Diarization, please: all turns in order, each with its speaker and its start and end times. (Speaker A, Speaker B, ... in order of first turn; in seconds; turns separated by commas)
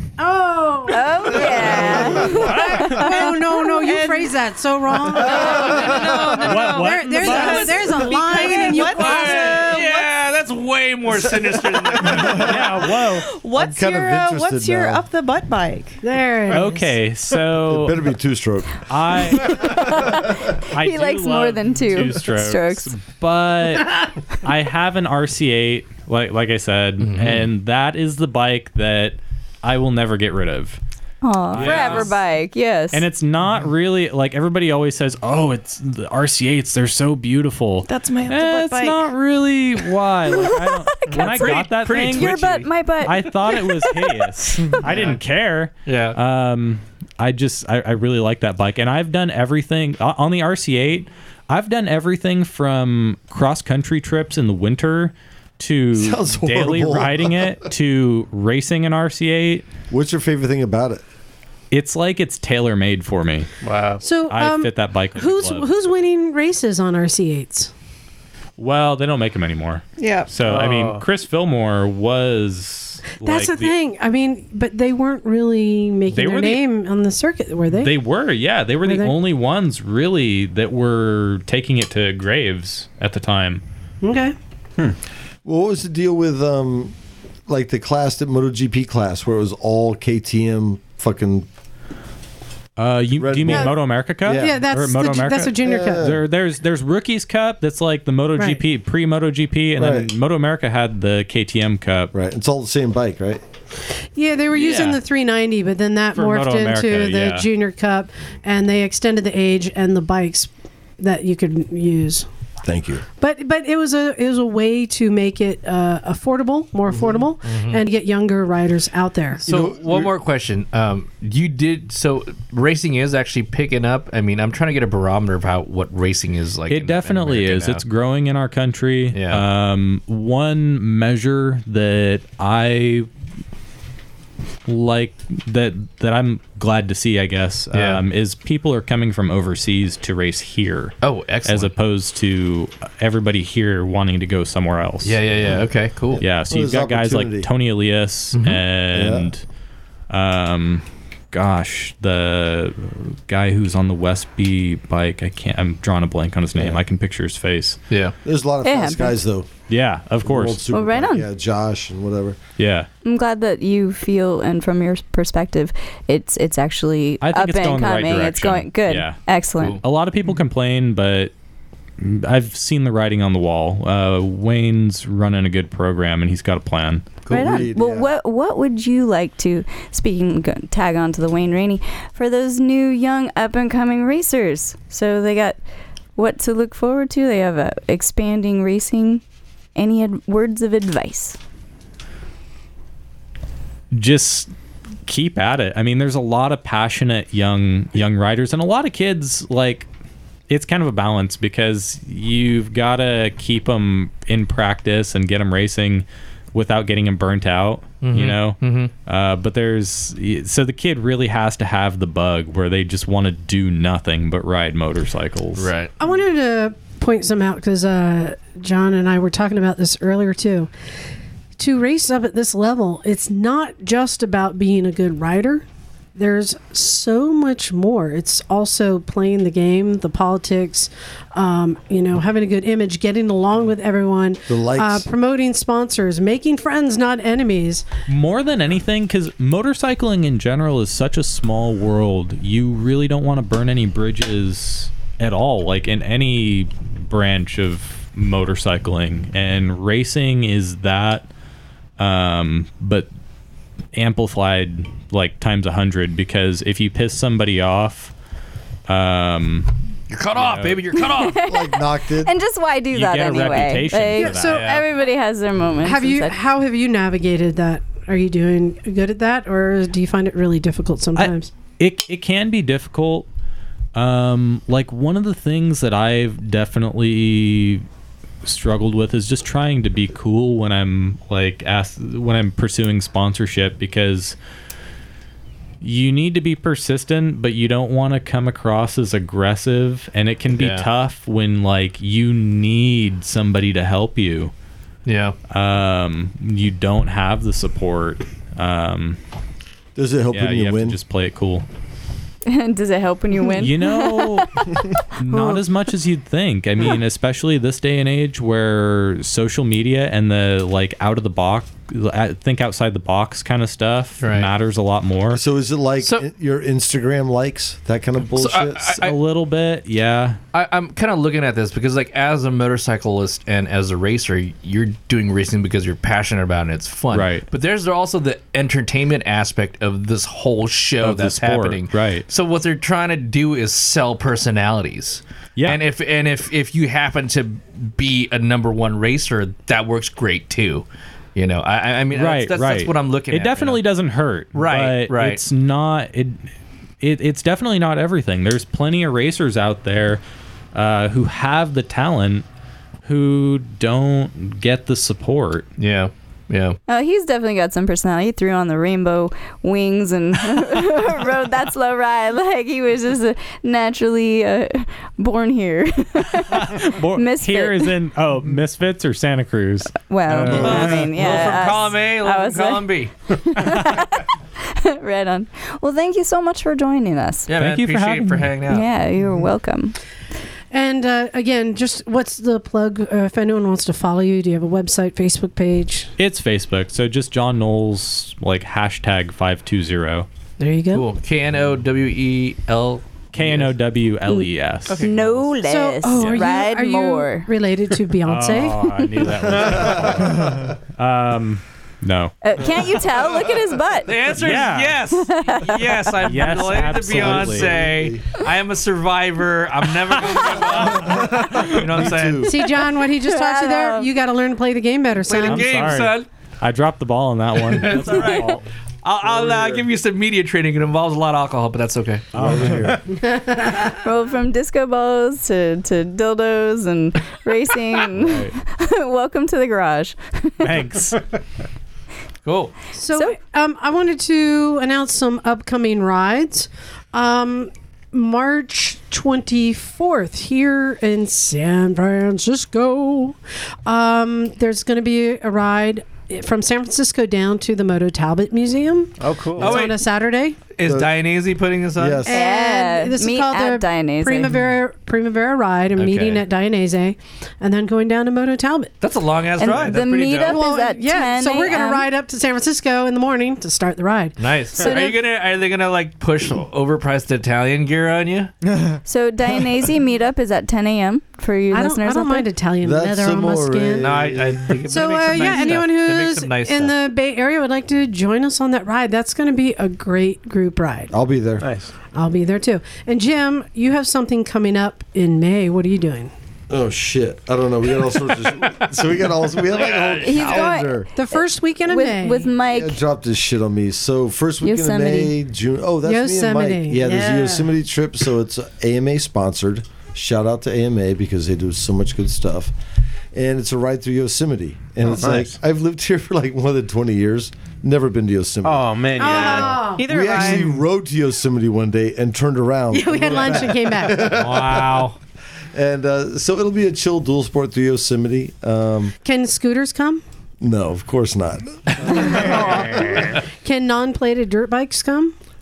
Speaker A: 0.2-9.8, Speaker B: 0.9-3.0, Speaker C: 2.5-3.1, Speaker D: 2.8-4.4, Speaker D: 5.1-10.1, Speaker C: 6.4-7.7, Speaker E: 8.4-12.7, Speaker C: 12.2-13.3, Speaker D: 13.3-16.0, Speaker F: 13.5-15.0, Speaker A: 16.0-16.8, Speaker C: 16.5-18.0, Speaker F: 17.7-18.9, Speaker C: 18.9-30.8, Speaker B: 19.3-22.9, Speaker E: 27.0-27.5, Speaker B: 31.2-33.0, Speaker C: 31.5-32.1, Speaker E: 31.5-32.1, Speaker C: 32.9-42.4, Speaker D: 37.9-39.1, Speaker B: 40.3-44.8, Speaker E: 41.1-42.7, Speaker C: 43.0-59.7, Speaker G: 44.9-45.1, Speaker E: 45.9-46.2, Speaker F: 56.0-57.6, Speaker F: 59.9-61.0, Speaker C: 61.7-63.5, Speaker G: 63.6-64.0, Speaker A: 64.0-67.7, Speaker C: 64.2-65.7, Speaker C: 68.6-73.8, Speaker D: 70.0-70.3, Speaker G: 70.4-71.1, Speaker A: 73.1-78.0, Speaker C: 76.1-76.7, Speaker C: 77.8-83.6, Speaker A: 78.8-79.2, Speaker A: 84.0-84.3, Speaker F: 85.5-87.0, Speaker F: 87.5-91.5, Speaker C: 92.8-102.1, Speaker F: 93.2-94.7, Speaker A: 93.5-96.1, Speaker F: 95.6-96.2, Speaker A: 98.4-98.6, Speaker F: 99.8-100.1, Speaker F: 102.1-103.4, Speaker A: 104.2-112.3, Speaker C: 104.5-105.0, Speaker C: 106.1-107.5, Speaker F: 112.6-113.0, Speaker A: 113.2-119.4, Speaker E: 117.4-117.8, Speaker E: 119.4-127.8, Speaker F: 119.5-120.1, Speaker C: 126.7-133.1, Speaker E: 129.1-129.4, Speaker C: 134.7-145.2, Speaker E: 137.7-138.0, Speaker E: 141.0-141.7, Speaker E: 145.0-146.2, Speaker F: 146.2-147.5, Speaker C: 146.2-149.4, Speaker E: 148.3-148.6, Speaker F: 148.9-149.3, Speaker C: 150.1-157.8, Speaker F: 158.2-159.5, Speaker B: 158.6-159.2, Speaker C: 159.7-160.7, Speaker F: 160.2-162.4, Speaker B: 160.7-161.3, Speaker C: 162.6-162.9, Speaker B: 163.0-169.8, Speaker C: 167.2-169.2, Speaker C: 169.8-171.3, Speaker C: 172.0-177.2, Speaker F: 177.3-178.1, Speaker B: 177.3-185.6, Speaker B: 186.2-189.2, Speaker B: 189.8-191.4, Speaker C: 193.9-194.5, Speaker C: 195.1-199.9, Speaker C: 200.5-215.7, Speaker E: 208.0-208.9, Speaker E: 215.6-215.9, Speaker A: 216.0-220.7, Speaker A: 221.6-225.6, Speaker A: 226.2-237.8, Speaker F: 234.5-235.1, Speaker C: 238.1-251.3, Speaker C: 252.0-253.1, Speaker C: 253.9-258.1, Speaker C: 258.9-259.7, Speaker E: 260.1-261.4, Speaker C: 260.3-260.9, Speaker B: 260.9-266.4, Speaker F: 261.4-262.4, Speaker C: 262.9-264.6, Speaker A: 264.2-264.6, Speaker E: 264.4-264.8, Speaker A: 265.8-271.5, Speaker C: 271.2-273.3, Speaker C: 273.9-277.8, Speaker C: 278.4-284.4, Speaker C: 285.8-294.5, Speaker E: 290.6-290.9, Speaker E: 295.1-295.4, Speaker C: 295.5-299.2, Speaker F: 300.0-301.0, Speaker C: 300.3-301.6, Speaker B: 302.5-304.5, Speaker C: 303.6-304.6, Speaker C: 305.2-315.4, Speaker E: 314.2-314.5, Speaker F: 315.3-319.0, Speaker E: 318.4-319.2, Speaker C: 318.9-320.4, Speaker E: 320.5-343.8, Speaker C: 327.1-327.5, Speaker C: 331.0-332.3, Speaker C: 342.1-346.4, Speaker E: 344.5-345.4, Speaker C: 347.0-350.2, Speaker C: 350.7-352.4, Speaker C: 353.0-355.7, Speaker E: 355.8-356.8, Speaker B: 356.9-367.9, Speaker C: 366.4-371.1, Speaker B: 370.0-372.9, Speaker E: 370.6-373.1, Speaker B: 373.5-377.5, Speaker C: 373.6-373.9, Speaker E: 377.5-378.9, Speaker C: 377.5-378.5, Speaker B: 378.7-380.0, Speaker A: 380.7-386.1, Speaker C: 386.2-390.3, Speaker A: 390.6-391.1, Speaker E: 390.9-393.7, Speaker C: 393.3-395.4, Speaker B: 394.3-397.5, Speaker E: 394.9-395.1, Speaker A: 395.6-399.0, Speaker C: 398.2-402.4, Speaker F: 399.8-400.6, Speaker B: 402.4-404.1, Speaker E: 404.1-412.6, Speaker C: 404.3-405.0, Speaker B: 405.3-406.2, Speaker C: 406.2-407.9, Speaker F: 407.0-408.2, Speaker F: 410.8-412.5, Speaker A: 412.4-415.8, Speaker B: 413.2-414.1, Speaker E: 415.3-416.3, Speaker C: 415.5-418.6, Speaker E: 417.7-422.3, Speaker B: 418.2-418.6, Speaker F: 419.2-419.8, Speaker C: 422.3-423.0, Speaker F: 422.4-423.0, Speaker A: 423.3-423.8, Speaker B: 423.8-430.7, Speaker C: 428.1-428.5, Speaker C: 430.6-431.2, Speaker E: 432.4-432.8, Speaker A: 432.9-450.6, Speaker B: 433.1-433.4, Speaker G: 449.2-449.8, Speaker E: 449.6-450.0, Speaker E: 450.8-452.3, Speaker F: 450.8-451.2, Speaker F: 452.0-452.3, Speaker A: 452.3-458.9, Speaker B: 452.3-454.5, Speaker E: 456.0-456.5, Speaker E: 459.0-460.6, Speaker B: 459.6-462.1, Speaker A: 460.4-465.2, Speaker E: 464.4-468.5, Speaker B: 469.1-472.5, Speaker A: 471.7-474.1, Speaker F: 472.8-474.8, Speaker E: 474.0-477.0, Speaker A: 474.9-481.1, Speaker F: 481.1-481.7, Speaker G: 481.6-481.9, Speaker A: 482.1-486.3, Speaker F: 486.7-491.1, Speaker E: 488.6-488.9, Speaker E: 489.7-490.6, Speaker B: 490.2-493.0, Speaker A: 491.1-492.5, Speaker F: 492.7-502.7, Speaker B: 494.6-495.3, Speaker A: 496.0-497.7, Speaker F: 503.3-515.1, Speaker G: 505.0-505.6, Speaker G: 508.6-510.0, Speaker A: 509.2-510.1, Speaker D: 509.2-510.8, Speaker A: 512.9-514.4, Speaker E: 514.2-515.2, Speaker F: 515.7-519.2, Speaker A: 519.2-520.2, Speaker F: 520.6-523.1, Speaker E: 522.1-523.4, Speaker A: 523.5-525.3